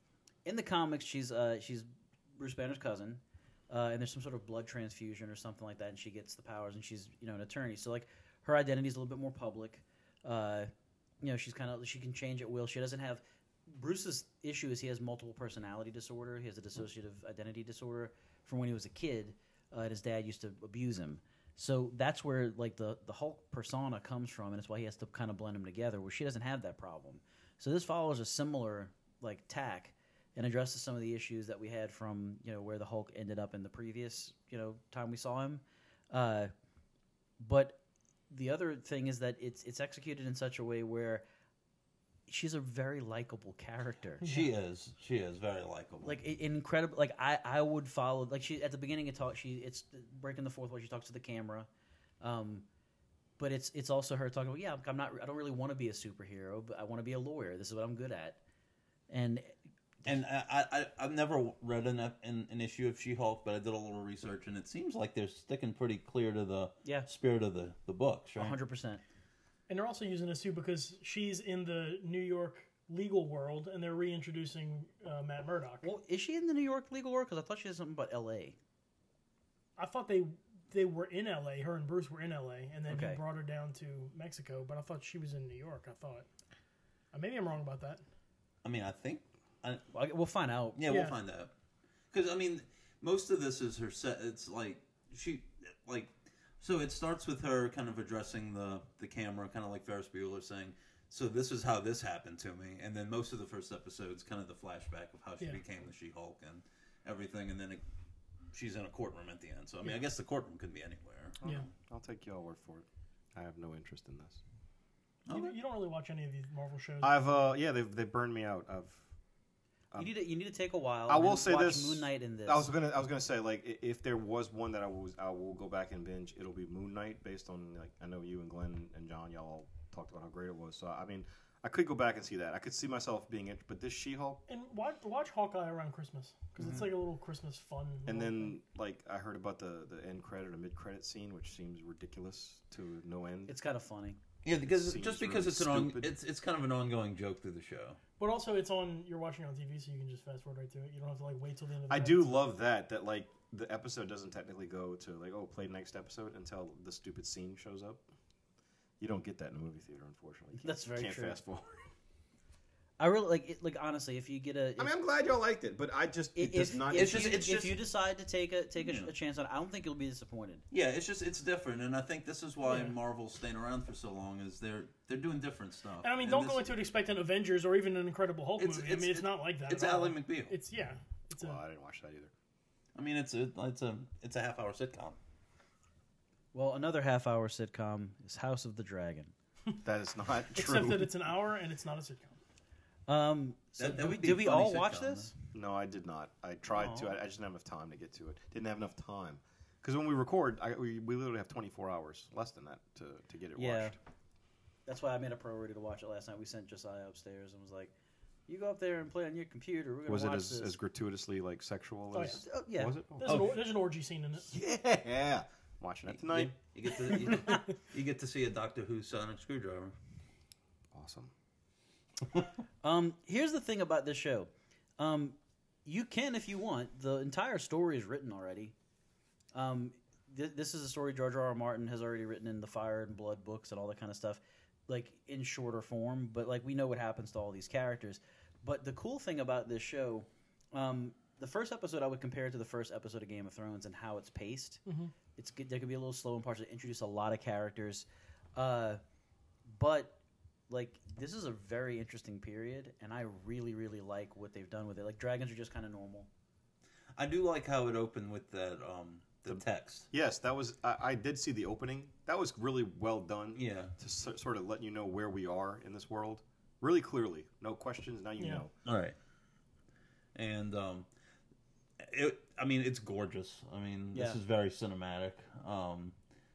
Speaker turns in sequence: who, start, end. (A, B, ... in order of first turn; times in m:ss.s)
0:00.4-0:36.5 A
0:37.4-0:41.2 A
0:42.3-0:44.2 A
0:44.2-0:44.5 B
0:44.2-0:46.2 C
0:46.0-0:51.7 A
0:52.2-0:52.7 A
0:53.4-0:58.4 A
0:59.1-0:59.6 A
1:00.0-1:08.6 C
1:08.4-1:09.0 A
1:09.7-1:15.9 B
1:15.8-1:18.6 A
1:19.8-1:26.3 B
1:22.9-1:23.2 A
1:27.1-1:28.0 B
1:28.6-1:29.9 C
1:29.9-1:30.8 A
1:30.8-1:31.5 C
1:30.9-1:31.2 B
1:32.1-1:47.8 C
1:48.5-1:51.5 C
1:51.4-1:54.4 D
1:55.3-1:55.6 C
1:55.3-1:57.3 B
1:57.0-1:59.1 D
2:00.0-2:02.7 A
2:01.1-2:14.4 D
2:14.5-2:18.5 B
2:16.6-2:16.8 C
2:18.1-2:23.5 D
2:23.5-2:24.2 A
2:24.4-2:28.0 C
2:24.6-2:26.1 D
2:28.2-2:32.4 B
2:31.9-2:38.0 D
2:39.0-2:41.7 D
2:40.5-2:41.4 A
2:43.0-2:44.9 A
2:44.8-2:47.7 D
2:46.4-2:50.6 A
2:46.9-2:47.8 C
2:48.8-2:49.1 C
2:50.7-2:56.6 C
2:52.6-2:53.0 B
2:56.0-3:01.6 B
2:58.6-3:00.6 C
3:01.3-3:02.3 D
3:03.0-3:05.2 C
3:06.5-3:09.3 A
3:09.8-3:11.1 D
3:10.5-3:12.4 B
3:13.1-3:15.3 A
3:13.8-3:15.3 C
3:15.5-3:24.0 D
3:16.7-3:17.1 A
3:23.6-3:24.0 A
3:24.9-3:27.9 A
3:28.5-3:30.8 A
3:30.1-3:33.5 D
3:32.1-3:32.4 B
3:32.3-3:33.0 A
3:33.2-3:34.5 B
3:33.2-3:33.6 C
3:34.5-3:36.5 D
3:36.1-3:40.0 C
3:37.3-3:37.6 A
3:40.9-3:41.3 D
3:42.8-3:48.7 A
3:49.5-4:04.8 A
4:04.9-4:05.1 B
4:05.4-4:09.0 A
4:09.7-4:16.3 A
4:17.2-4:20.1 C
4:20.1-4:28.7 D
4:23.6-4:23.9 C
4:28.4-4:28.6 B
4:28.8-4:29.2 C
4:30.4-4:31.1 C
4:32.0-4:36.2 C
4:34.1-4:34.4 A